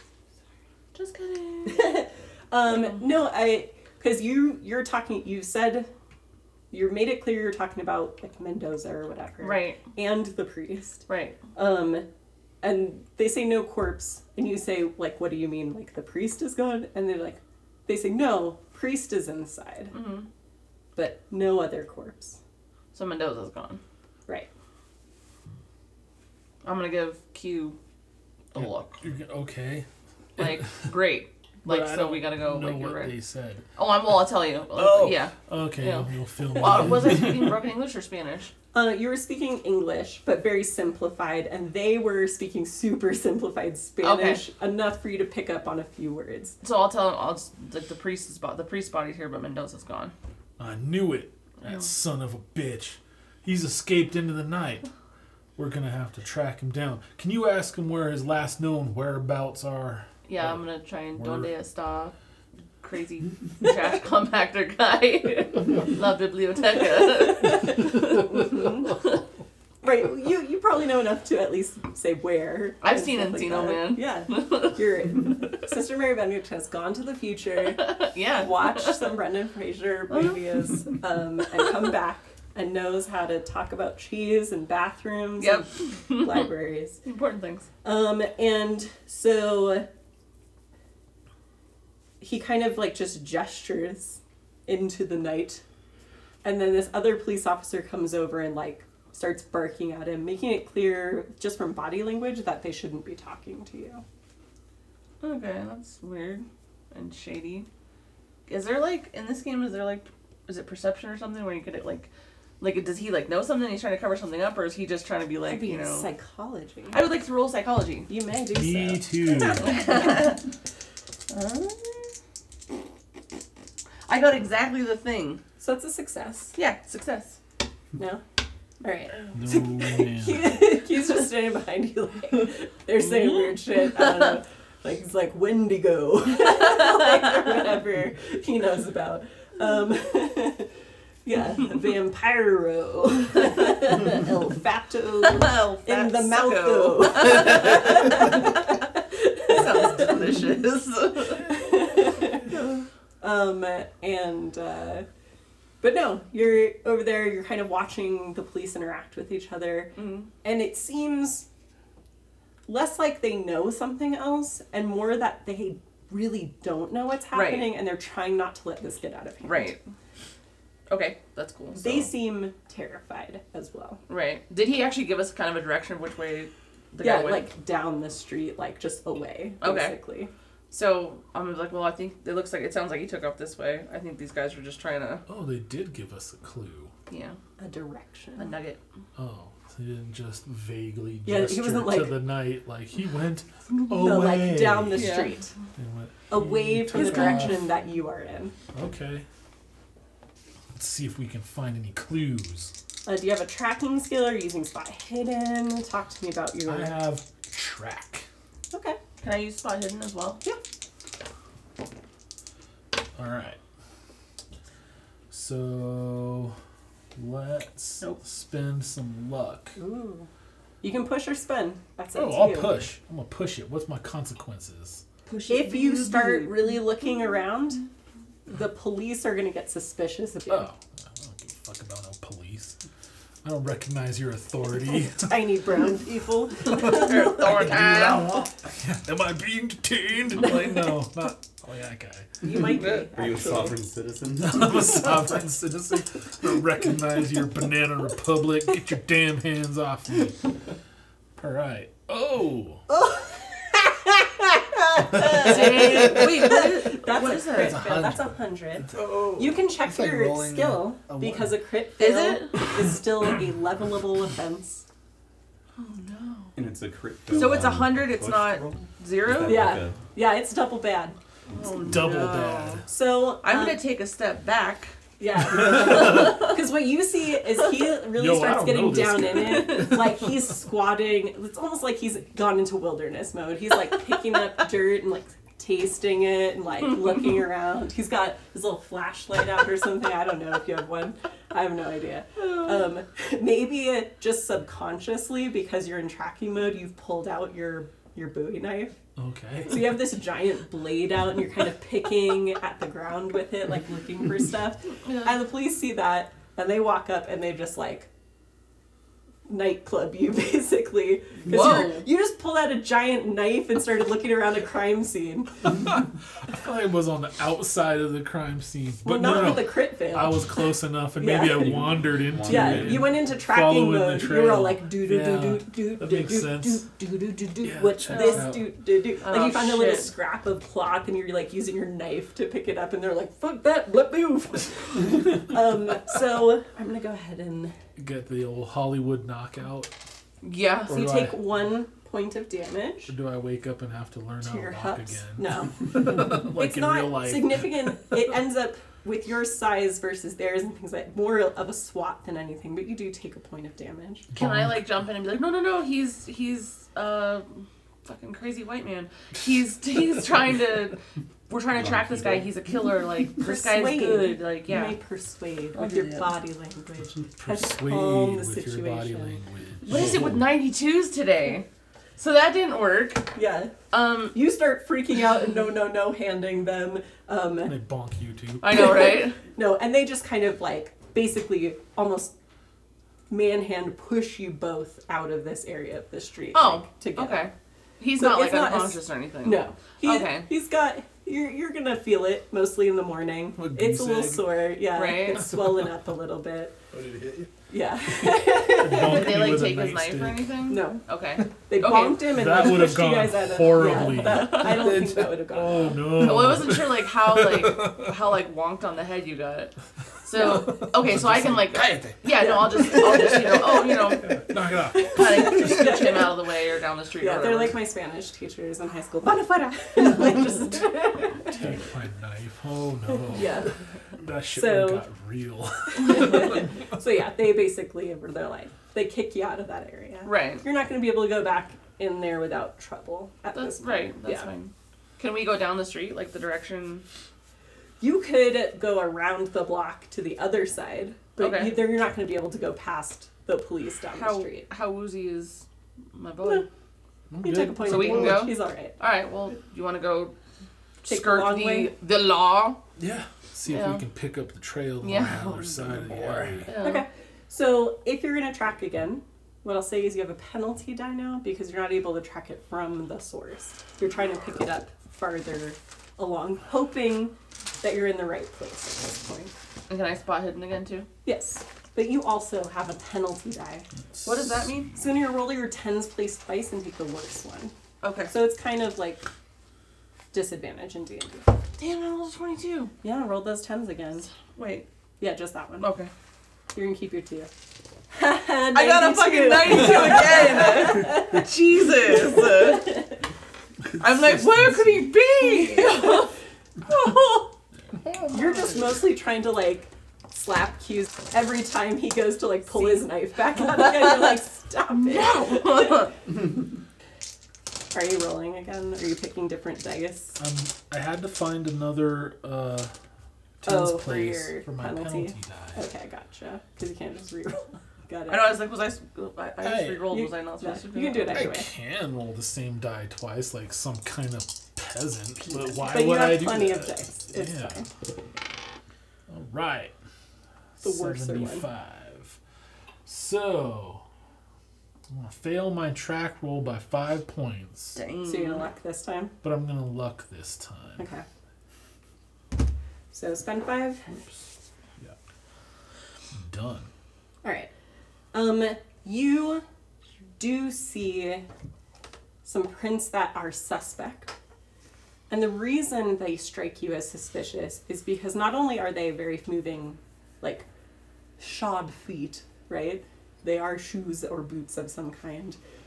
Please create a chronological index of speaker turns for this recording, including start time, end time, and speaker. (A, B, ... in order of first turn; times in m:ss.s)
0:00.9-0:02.0 A
0:01.6-0:05.9 B
0:06.7-0:12.1 B
0:09.4-0:09.8 A
0:11.1-0:11.4 A
0:12.6-0:19.9 B
0:19.9-0:20.3 A
0:21.0-0:22.4 B
0:22.9-0:23.8 A
0:26.6-0:27.8 A
0:28.5-0:29.0 A
0:28.6-0:30.7 C
0:30.4-0:33.1 A
0:31.6-0:33.6 C
0:33.8-0:38.5 A
0:34.8-0:35.1 D
0:35.4-0:37.4 C
0:38.7-0:46.6 B
0:44.0-0:44.4 A
0:46.6-0:50.1 A
0:50.6-0:54.8 C
0:51.6-0:51.9 A
0:55.6-1:01.5 C
1:00.3-1:02.1 A
1:02.8-1:09.0 A
1:07.4-1:09.0 B
1:09.8-1:27.0 B
1:12.8-1:14.8 A
1:17.7-1:19.1 A
1:20.1-1:20.4 A
1:25.4-1:26.5 A
1:27.0-1:27.7 A
1:27.8-1:29.9 B
1:32.2-1:35.6 B
1:36.4-1:44.0 B
1:45.2-1:47.7 A
1:48.5-1:52.1 A
1:52.6-1:56.1 A
1:55.4-1:57.0 B
1:56.9-1:58.1 A
1:58.1-2:00.2 B
1:58.3-1:59.8 C
1:59.6-2:00.4 A
2:01.3-2:02.1 A
2:04.0-2:05.4 A
2:05.6-2:06.6 B
2:06.5-2:07.4 A
2:08.0-2:08.2 B
2:08.8-2:20.7 B
2:09.3-2:10.6 C
2:13.3-2:13.9 A
2:21.2-2:30.2 B
2:25.3-2:28.5 A
2:29.5-2:31.6 A
2:31.5-2:32.6 B
2:32.5-2:32.8 A
2:33.2-2:35.0 B
2:35.8-2:41.5 B
2:40.0-2:40.3 A
2:42.7-2:49.8 B
2:47.3-2:47.7 A
2:49.4-2:49.8 A
2:50.9-2:52.1 A
2:51.7-2:54.0 B
2:54.1-2:57.5 A
2:57.0-3:00.3 B
2:59.6-2:59.9 A
3:00.7-3:05.2 A
3:05.3-3:06.9 C
3:07.1-3:07.4 A
3:07.6-3:08.5 B
3:08.4-3:08.8 A
3:09.2-3:17.6 C
3:11.2-3:12.2 B
3:13.9-3:15.5 B
3:14.9-3:15.4 A
3:16.3-3:18.5 B
3:16.9-3:17.5 A
3:18.7-3:19.2 C
3:20.7-3:22.7 C
3:23.0-3:27.0 B
3:26.6-3:28.3 C
3:28.7-3:29.0 B
3:29.2-3:30.4 A
3:33.2-3:33.6 C
3:35.3-3:36.6 C
3:37.1-3:39.8 C
3:39.8-3:40.3 B
3:40.8-3:42.8 B
3:42.1-3:45.0 C
3:45.2-3:46.8 A
3:45.5-3:47.8 B
3:48.5-3:50.7 B
3:50.5-3:52.8 C
3:53.4-3:55.3 C
3:55.0-3:58.2 B
3:56.7-4:02.6 C
3:56.7-3:58.4 A
4:02.4-4:03.8 B
4:02.8-4:03.1 A
4:03.1-4:05.2 D
4:04.4-4:10.5 C
4:11.4-4:12.8 C
4:13.0-4:13.8 B
4:15.0-4:24.8 B
4:15.1-4:15.9 C
4:15.2-4:17.8 A
4:17.5-4:18.3 C
4:18.9-4:21.6 E
4:22.0-4:22.6 A
4:25.8-4:26.5 A
4:26.6-4:30.0 D
4:27.3-4:29.7 A
4:29.4-4:31.2 B
4:31.5-4:32.9 A
4:31.8-4:32.8 C
4:32.9-4:33.8 B
4:33.4-4:34.9 A
4:35.2-4:59.0 B
4:35.6-4:36.5 A
4:38.1-4:40.3 C
4:59.2-5:00.1 C
4:59.7-5:08.1 B
5:09.5-5:15.7 B
5:11.4-5:12.0 A
5:15.9-5:26.8 C
5:19.0-5:20.5 B
5:21.2-5:37.8 B
5:21.7-5:23.2 D
5:27.6-5:28.7 C
5:28.0-5:28.5 A
5:29.2-5:30.1 A
5:38.0-5:39.9 C
5:40.4-5:41.1 A
5:40.9-5:41.5 C
5:40.9-5:43.1 B
5:43.1-5:47.9 C
5:44.4-5:54.3 B
5:54.3-5:54.8 C
5:54.3-6:05.0 A
6:01.7-6:02.5 D
6:03.4-6:09.4 B
6:05.7-6:06.3 A
6:07.4-6:10.5 C
6:09.8-6:13.3 A
6:13.3-6:17.8 B
6:13.9-6:14.4 A
6:17.6-6:19.1 C
6:18.6-6:19.4 A
6:18.7-6:22.3 B
6:23.3-6:27.5 B
6:26.5-6:30.5 A
6:28.1-6:36.8 B
6:33.6-6:34.5 C
6:34.9-6:35.5 A
6:36.9-6:37.5 E
6:37.7-6:39.6 B
6:38.6-6:40.6 C
6:38.9-6:42.4 A
6:40.7-6:41.0 B
6:41.6-6:46.3 B
6:42.2-6:44.9 C
6:43.8-6:45.0 A
6:44.7-6:45.4 E
6:45.5-6:48.1 C
6:46.0-6:54.5 A
6:50.3-6:50.8 B
6:51.0-6:54.9 E
6:51.1-6:51.5 C
6:52.4-6:53.3 B
6:54.4-6:55.4 C
6:55.0-6:57.8 A
6:55.2-6:56.3 B
6:55.7-6:56.0 E
6:57.2-7:01.8 B
7:01.5-7:06.8 C
7:03.3-7:03.8 B
7:04.5-7:05.0 B
7:05.9-7:14.5 B
7:10.2-7:10.6 A
7:13.5-7:17.0 A
7:18.0-7:24.7 B
7:21.4-7:21.8 A
7:24.1-7:26.7 A
7:27.3-7:28.5 C
7:27.4-7:29.0 B
7:27.8-7:30.3 A
7:31.0-7:32.8 A
7:31.0-7:31.9 B
7:33.0-7:36.7 C
7:33.7-7:34.0 A
7:35.0-7:37.0 A
7:36.7-7:49.5 B
7:49.9-7:51.1 A
7:51.2-7:53.9 B
7:54.2-7:55.0 A
7:55.0-7:57.7 B
7:58.0-7:58.3 A
7:58.3-7:59.2 B
8:00.3-8:01.5 B
8:01.8-8:02.9 A
8:03.0-8:04.3 B
8:04.4-8:04.8 A
8:05.2-8:05.9 B
8:05.8-8:06.1 A
8:06.7-8:07.5 B
8:08.1-8:11.4 B
8:08.7-8:13.1 A
8:12.3-8:13.2 B
8:14.0-8:16.3 A
8:15.5-8:16.2 B
8:16.8-8:17.6 A
8:18.3-8:26.1 B
8:22.7-8:23.1 A
8:23.6-8:24.0 A
8:25.0-8:26.2 A
8:27.9-8:30.4 B
8:30.4-8:32.9 C
8:33.6-8:35.8 C
8:33.6-8:38.6 B
8:38.3-8:41.6 A
8:39.6-8:40.1 C
8:40.1-8:41.7 B
8:41.3-8:47.8 C
8:45.8-8:47.9 B
8:49.3-8:49.9 C
8:50.8-8:52.4 C
8:50.8-8:51.7 B
8:53.0-8:54.0 C
8:55.1-8:58.0 C
8:57.9-8:58.7 A
8:58.2-8:59.4 B
8:59.4-9:01.0 C
9:01.0-9:01.2 B
9:03.1-9:04.2 B
9:06.3-9:06.9 C
9:07.4-9:07.7 B
9:08.3-9:09.6 B
9:10.4-9:11.4 B
9:12.4-9:14.3 B
9:15.3-9:20.7 B
9:21.4-9:25.6 B